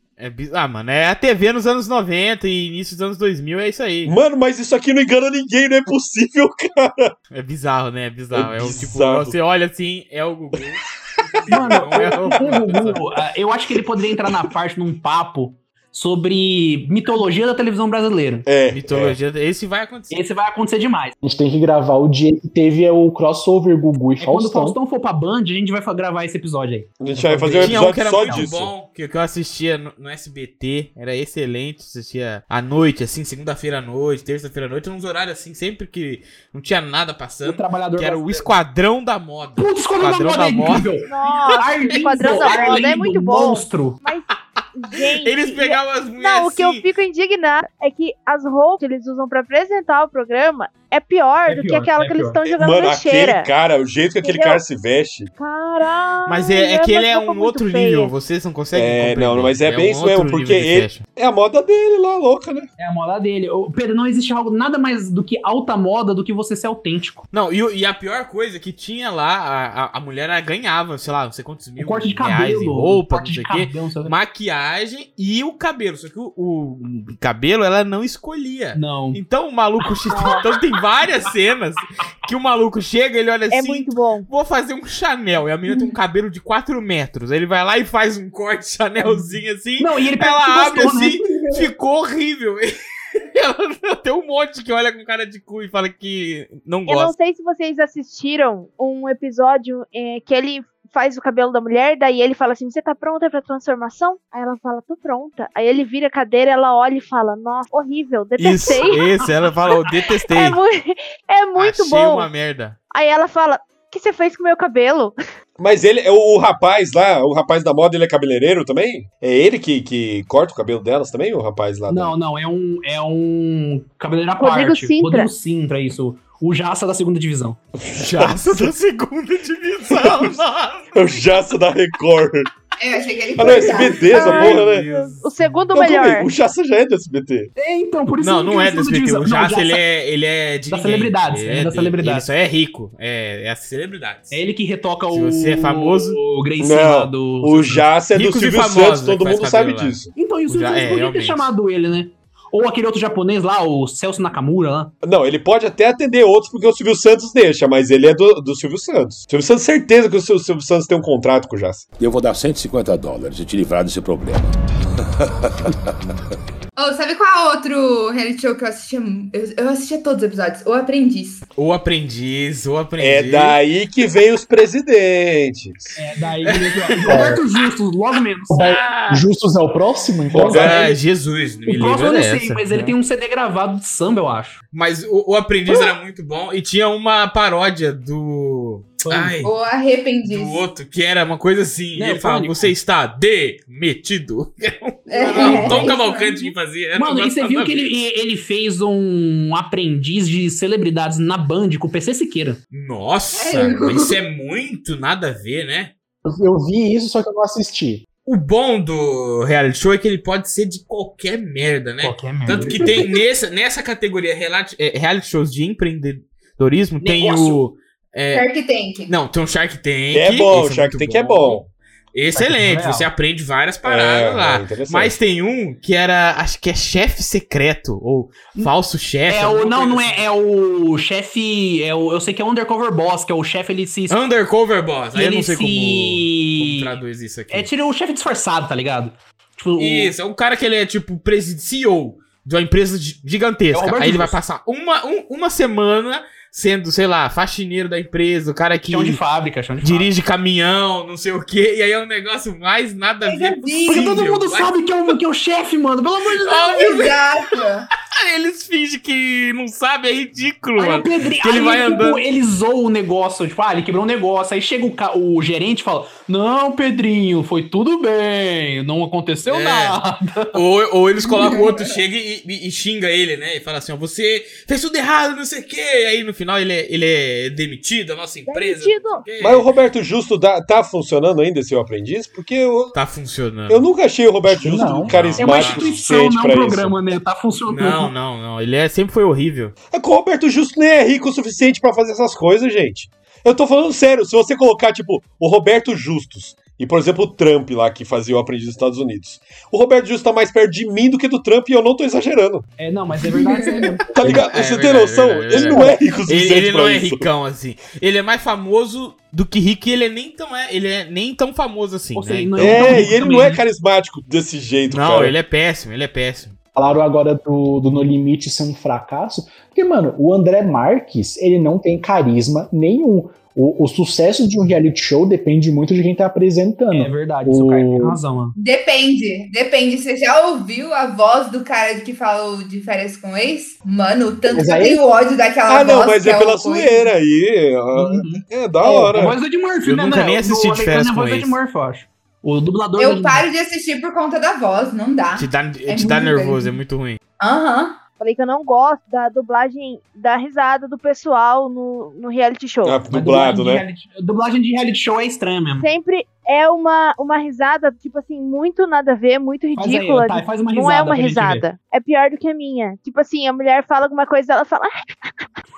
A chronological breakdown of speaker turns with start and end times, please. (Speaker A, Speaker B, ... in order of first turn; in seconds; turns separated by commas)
Speaker A: 0.2-4.2, Speaker B: 4.0-7.1, Speaker A: 7.3-13.1, Speaker B: 8.3-9.3, Speaker B: 11.4-12.2, Speaker C: 11.5-18.5, Speaker B: 18.4-19.2, Speaker A: 18.7-20.2, Speaker C: 20.1-21.1, Speaker D: 21.2-24.8, Speaker C: 24.2-28.5, Speaker B: 27.0-28.7, Speaker A: 27.6-40.9, Speaker C: 37.4-38.5, Speaker C: 39.6-44.0, Speaker E: 41.1-53.5, Speaker A: 41.5-42.9, Speaker A: 45.0-46.9, Speaker C: 51.5-52.4, Speaker B: 52.5-55.3, Speaker E: 54.2-54.6, Speaker E: 55.4-58.1, Speaker A: 56.3-61.0, Speaker B: 58.7-62.7, Speaker C: 62.8-67.3, Speaker A: 67.3-97.1, Speaker C: 71.8-74.1, Speaker C: 78.8-79.2, Speaker C: 79.8-80.6, Speaker E: 83.5-84.3, Speaker C: 89.0-91.7, Speaker E: 96.9-109.0, Speaker A: 108.4-110.6, Speaker E: 110.3-112.3, Speaker A: 111.6-112.8, Speaker E: 112.9-115.2, Speaker B: 115.6-122.2, Speaker C: 121.9-127.6, Speaker E: 124.4-125.3, Speaker B: 127.8-128.7, Speaker A: 127.9-131.2, Speaker B: 129.9-130.3, Speaker B: 130.9-132.5, Speaker F: 132.8-134.5, Speaker B: 133.4-134.9, Speaker A: 134.0-135.7, Speaker E: 134.1-136.3, Speaker B: 135.7-137.5, Speaker C: 137.6-139.8, Speaker A: 138.2-144.4, Speaker C: 140.7-142.3, Speaker C: 144.3-147.8, Speaker A: 145.1-146.2, Speaker B: 146.6-150.1, Speaker A: 148.1-151.5, Speaker C: 150.2-154.9, Speaker B: 155.0-161.9, Speaker G: 162.0-164.5, Speaker G: 165.2-165.8, Speaker F: 166.8-171.5, Speaker A: 171.6-173.6, Speaker B: 173.0-175.9, Speaker C: 175.9-178.6, Speaker A: 176.5-177.4, Speaker D: 177.1-177.4, Speaker D: 178.5-180.7, Speaker A: 178.6-179.2, Speaker B: 180.3-180.9, Speaker A: 180.4-182.9, Speaker C: 181.7-184.6, Speaker A: 184.7-189.5, Speaker C: 189.0-189.5, Speaker F: 189.4-190.6, Speaker A: 190.2-197.9, Speaker C: 191.9-192.7, Speaker F: 195.1-196.5, Speaker C: 195.4-195.9, Speaker C: 196.9-202.6, Speaker A: 202.7-205.9, Speaker F: 203.3-204.2, Speaker D: 206.2-208.0, Speaker A: 208.3-218.5, Speaker C: 212.0-213.1, Speaker F: 212.8-213.2, Speaker C: 217.0-217.6, Speaker F: 218.3-219.1, Speaker A: 219.1-230.3, Speaker B: 220.1-221.7, Speaker C: 222.3-223.1, Speaker B: 223.8-225.2, Speaker C: 229.3-234.2, Speaker A: 234.1-237.7, Speaker C: 235.1-237.0, Speaker C: 237.5-240.1, Speaker A: 239.8-249.2, Speaker C: 243.7-244.4, Speaker C: 248.9-250.1, Speaker A: 249.8-254.8, Speaker F: 253.2-254.2, Speaker C: 253.9-257.0, Speaker A: 256.4-257.6, Speaker F: 256.8-257.9, Speaker A: 258.1-262.2, Speaker C: 260.8-270.6, Speaker A: 269.5-270.0, Speaker A: 270.5-279.7, Speaker F: 271.2-271.9, Speaker E: 278.5-279.2, Speaker B: 279.4-283.0, Speaker A: 282.9-283.9, Speaker B: 283.7-287.0, Speaker D: 284.4-285.2, Speaker A: 285.1-286.0, Speaker C: 285.4-288.1, Speaker A: 287.7-289.8, Speaker B: 289.9-302.7, Speaker C: 302.8-304.1, Speaker F: 303.4-303.8, Speaker B: 304.1-307.3, Speaker A: 304.2-313.1, Speaker C: 312.1-313.6, Speaker B: 312.6-315.3, Speaker A: 314.9-316.6, Speaker D: 316.8-328.2, Speaker C: 326.9-328.6, Speaker F: 328.6-337.1, Speaker D: 334.5-335.0, Speaker B: 335.7-339.4, Speaker C: 337.9-343.5, Speaker A: 339.8-341.6, Speaker F: 343.0-346.8, Speaker A: 345.4-347.2, Speaker F: 347.4-348.0, Speaker E: 348.2-353.0, Speaker B: 352.8-353.9, Speaker C: 353.1-355.9, Speaker E: 355.8-365.4, Speaker C: 359.8-361.6